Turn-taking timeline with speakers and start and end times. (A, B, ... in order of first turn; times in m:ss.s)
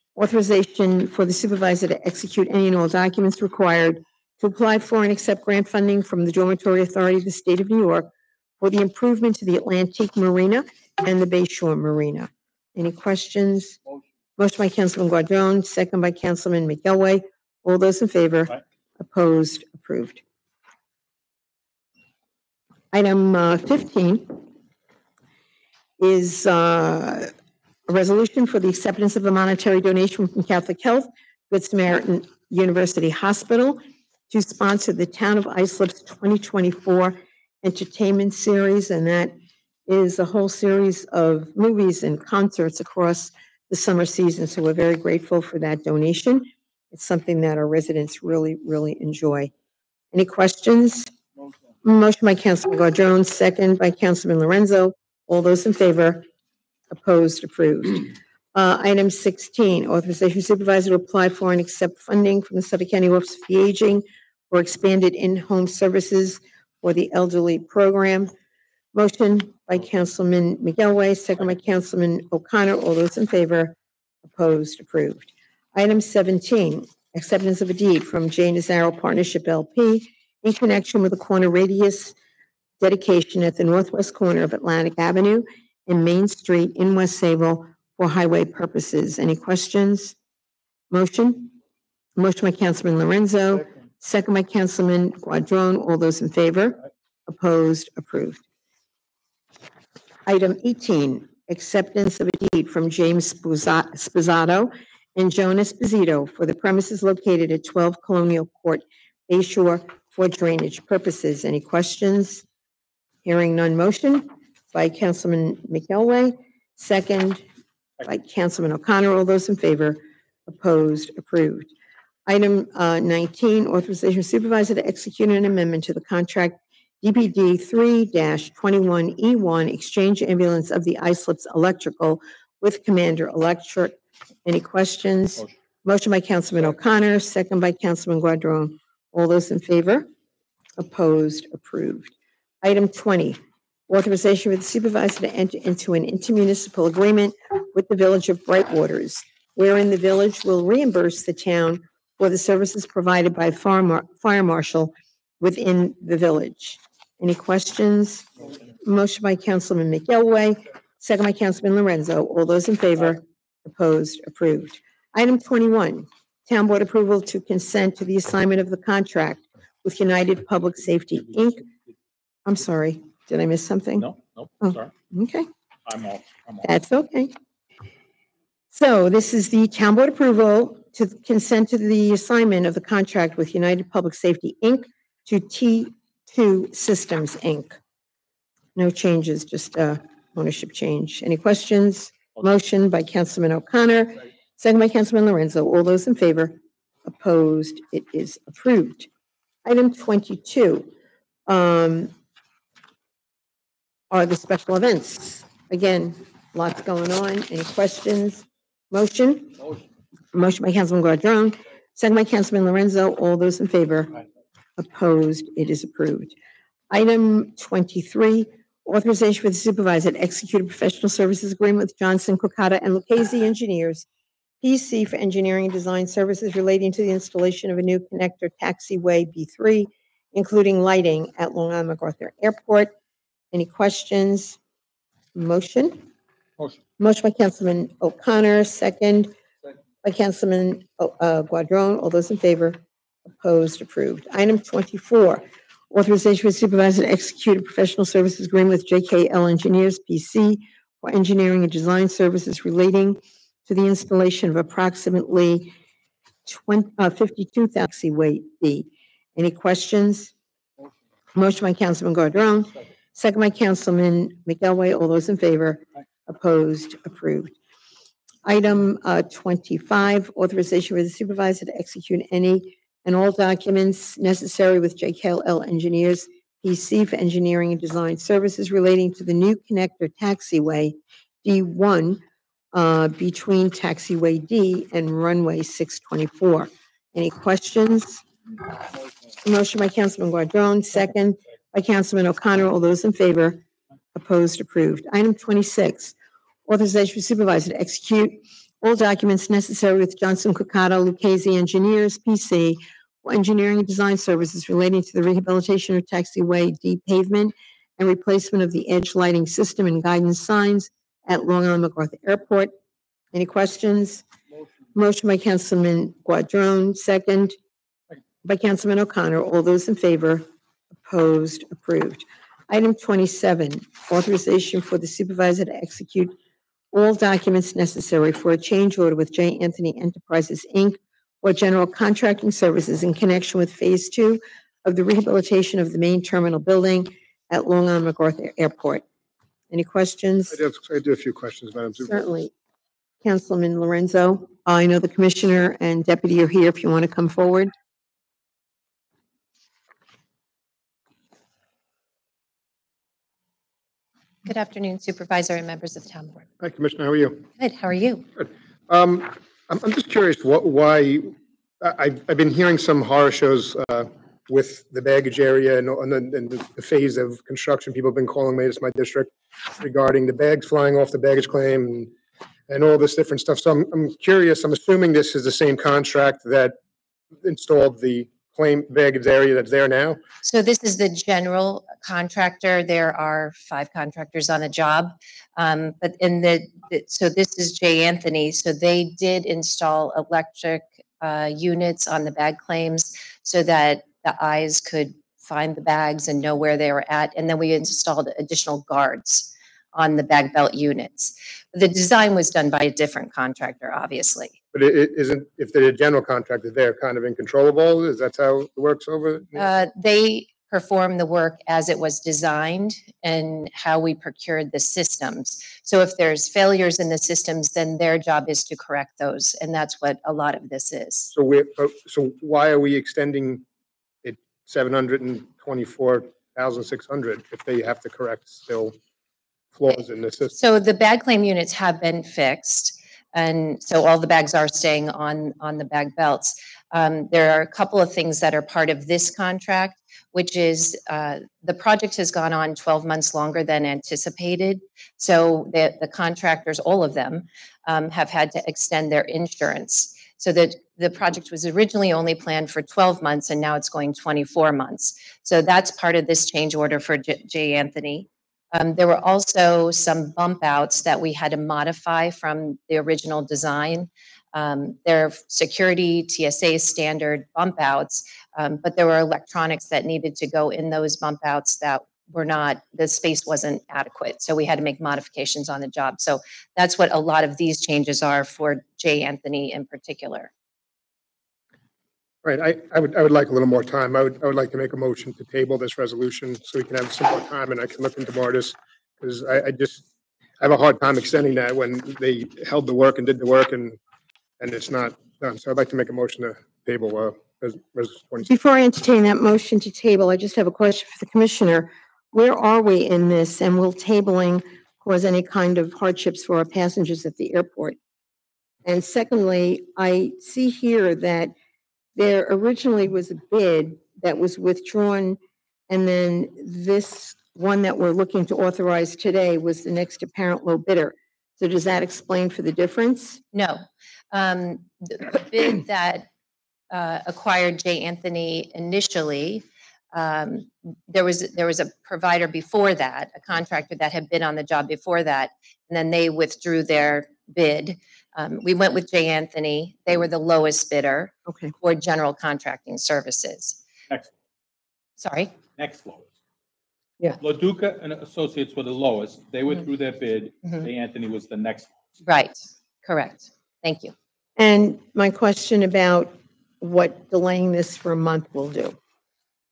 0:00.2-0:13.8 A
0:14.4-0:20.2 A
0:22.9-0:24.4 A
0:26.0-0:27.3 A
0:27.9-0:33.8 A
0:34.3-0:39.3 A
0:39.9-0:49.5 A
0:50.1-0:51.1 A
0:51.8-0:56.2 A
0:56.9-1:08.3 A
1:08.9-1:22.1 A
1:22.8-1:30.1 A
1:30.9-1:31.5 A
1:32.2-1:38.4 A
1:40.3-1:52.4 A
1:53.2-1:57.4 A
1:58.1-2:01.7 A
2:02.3-2:20.1 A
2:20.8-2:38.3 A
2:38.8-2:51.6 A
2:52.4-2:54.1 A
2:54.0-2:54.9 B
2:54.6-2:55.5 A
2:55.8-2:56.7 B
2:56.6-2:57.3 A
2:58.7-3:07.8 A
3:08.8-3:19.1 A
3:19.6-3:20.9 A
3:21.5-3:22.1 A
3:24.1-3:29.6 A
3:30.3-3:34.1 A
3:34.8-3:36.3 A
3:36.9-3:44.0 A
3:44.6-3:52.9 A
3:53.5-3:54.6 A
3:55.3-3:56.0 A
3:57.0-3:59.3 A
4:00.0-4:15.7 A
4:16.4-4:20.3 A
4:21.3-4:27.5 A
4:28.4-4:42.2 A
4:42.7-4:48.2 A
4:49.4-4:53.6 A
4:54.1-4:56.1 A
4:56.6-5:12.7 A
5:13.3-5:14.2 A
5:14.9-5:17.6 A
5:18.4-5:20.4 A
5:21.0-5:26.3 A
5:26.9-5:39.0 A
5:39.7-5:40.6 A
5:40.5-5:42.2 C
5:42.0-5:42.5 A
5:43.2-5:47.7 A
5:54.4-5:56.4 D
5:56.6-5:57.4 C
5:57.6-5:58.2 D
5:58.4-6:12.1 C
6:12.7-6:16.8 C
6:17.4-6:20.2 C
6:20.4-6:44.5 D
6:44.7-6:49.6 C
6:49.5-7:01.3 D
7:01.3-7:03.6 C
7:04.2-7:08.9 C
7:09.7-7:10.5 C
7:10.5-8:00.5 D
8:02.4-8:10.0 C
8:10.6-8:14.0 C
8:14.6-8:18.5 C
8:18.4-8:28.0 A
8:28.8-8:31.5 A
8:32.2-8:35.4 A
8:35.9-8:43.4 A
8:43.5-8:46.3 D
8:46.9-9:03.8 D
9:01.5-9:01.7 A
9:05.2-9:05.5 D
9:05.8-9:06.3 B
9:07.4-9:11.9 B
9:12.2-9:14.1 D
9:14.6-9:19.0 A